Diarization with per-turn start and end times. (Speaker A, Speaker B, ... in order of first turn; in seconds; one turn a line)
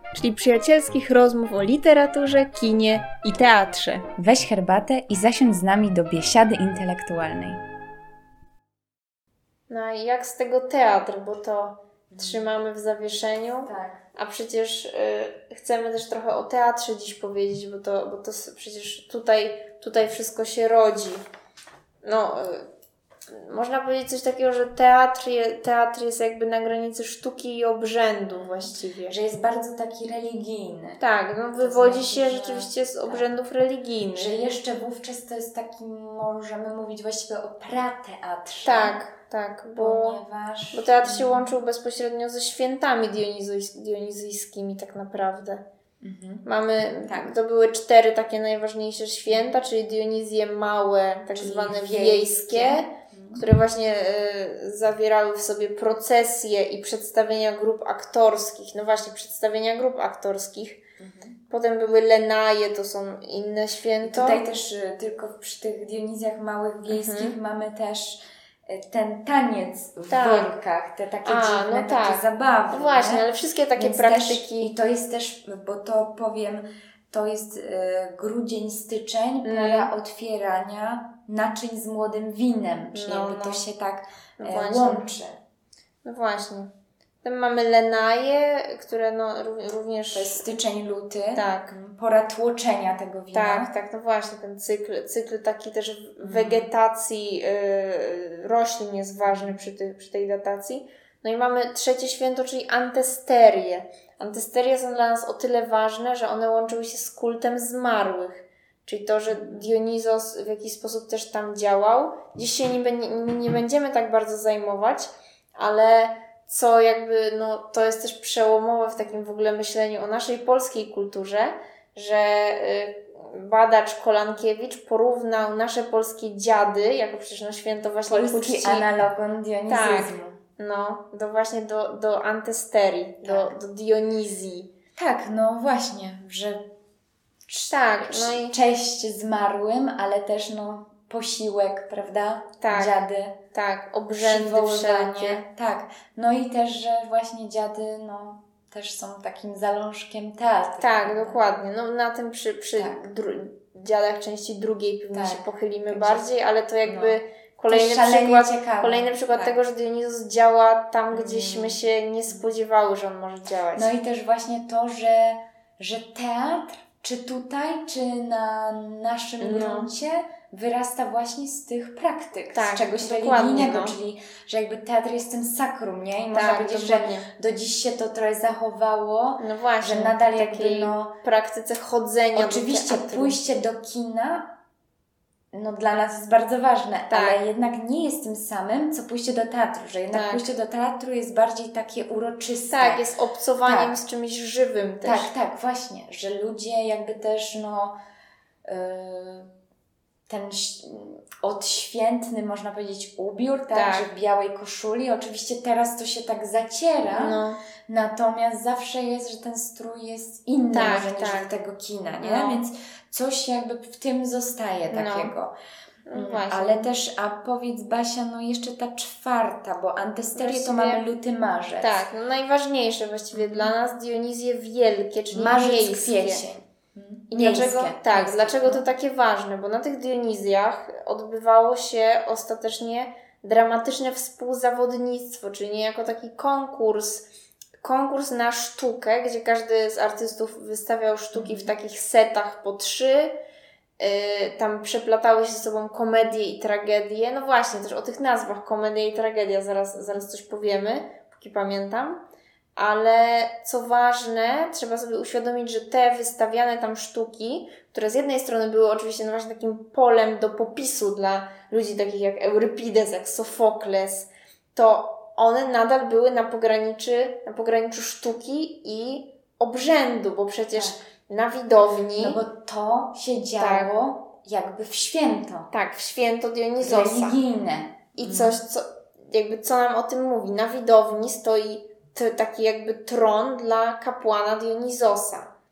Speaker A: 0.1-4.1
Speaker B: 4.2-7.6
Speaker A: 9.7-21.2
Speaker B: 12.1-12.5
Speaker B: 13.6-14.0
Speaker A: 22.0-22.7
Speaker A: 23.3-29.1
Speaker B: 28.4-31.0
Speaker A: 31.0-34.3
Speaker B: 31.6-33.3
Speaker B: 34.1-39.0
Speaker A: 38.6-40.2
Speaker B: 39.8-41.5
Speaker A: 40.7-45.6
Speaker B: 46.0-46.5
Speaker A: 46.4-60.8
Speaker B: 47.0-47.4
Speaker B: 51.3-53.4
Speaker B: 61.0-61.4
Speaker A: 61.5-64.4
Speaker B: 64.0-73.2
Speaker A: 66.9-67.3
Speaker A: 70.1-70.6
Speaker A: 71.2-74.7
Speaker B: 73.8-85.4
Speaker A: 79.4-79.9
Speaker A: 82.9-83.6
Speaker A: 84.4-85.0
Speaker A: 86.0-86.7
Speaker A: 87.2-90.4
Speaker B: 90.1-93.7
Speaker A: 91.3-91.7
Speaker A: 93.3-128.9
Speaker B: 96.2-96.7
Speaker B: 99.2-99.5
Speaker B: 109.3-109.7
Speaker B: 128.1-130.4
Speaker A: 129.7-134.7
Speaker B: 133.2-133.6
Speaker B: 134.9-136.7
Speaker B: 137.5-143.4
Speaker A: 137.7-138.5
Speaker A: 142.6-142.9
Speaker A: 143.5-145.4
Speaker B: 144.1-151.5
Speaker A: 150.8-163.9
Speaker B: 152.8-153.0
Speaker B: 155.1-156.2
Speaker B: 156.8-159.6
Speaker B: 161.1-162.5
Speaker B: 163.7-181.2
Speaker A: 169.4-169.9
Speaker A: 172.5-173.9
Speaker A: 176.3-177.3
Speaker A: 179.4-183.4
Speaker B: 182.3-184.5
Speaker B: 185.5-193.0
Speaker A: 187.1-187.4
Speaker A: 190.1-190.5
Speaker A: 192.7-195.3
Speaker B: 193.6-194.0
Speaker B: 195.0-197.9
Speaker B: 198.6-199.5
Speaker B: 200.3-215.5
Speaker A: 203.7-204.1
Speaker A: 207.2-207.6
Speaker A: 210.7-211.5
Speaker A: 212.2-212.6
Speaker A: 214.9-215.3
Speaker A: 216.1-216.8
Speaker B: 216.1-222.0
Speaker A: 220.3-221.0
Speaker A: 221.8-226.4
Speaker B: 223.3-223.7
Speaker B: 225.3-228.9
Speaker A: 227.3-237.3
Speaker A: 237.8-243.3
Speaker B: 241.3-241.7
Speaker A: 244.0-252.2
Speaker B: 249.9-250.2
Speaker A: 252.8-272.4
Speaker B: 272.2-275.7
Speaker A: 273.6-273.9
Speaker A: 275.7-277.4
Speaker B: 276.8-278.6
Speaker A: 278.1-285.5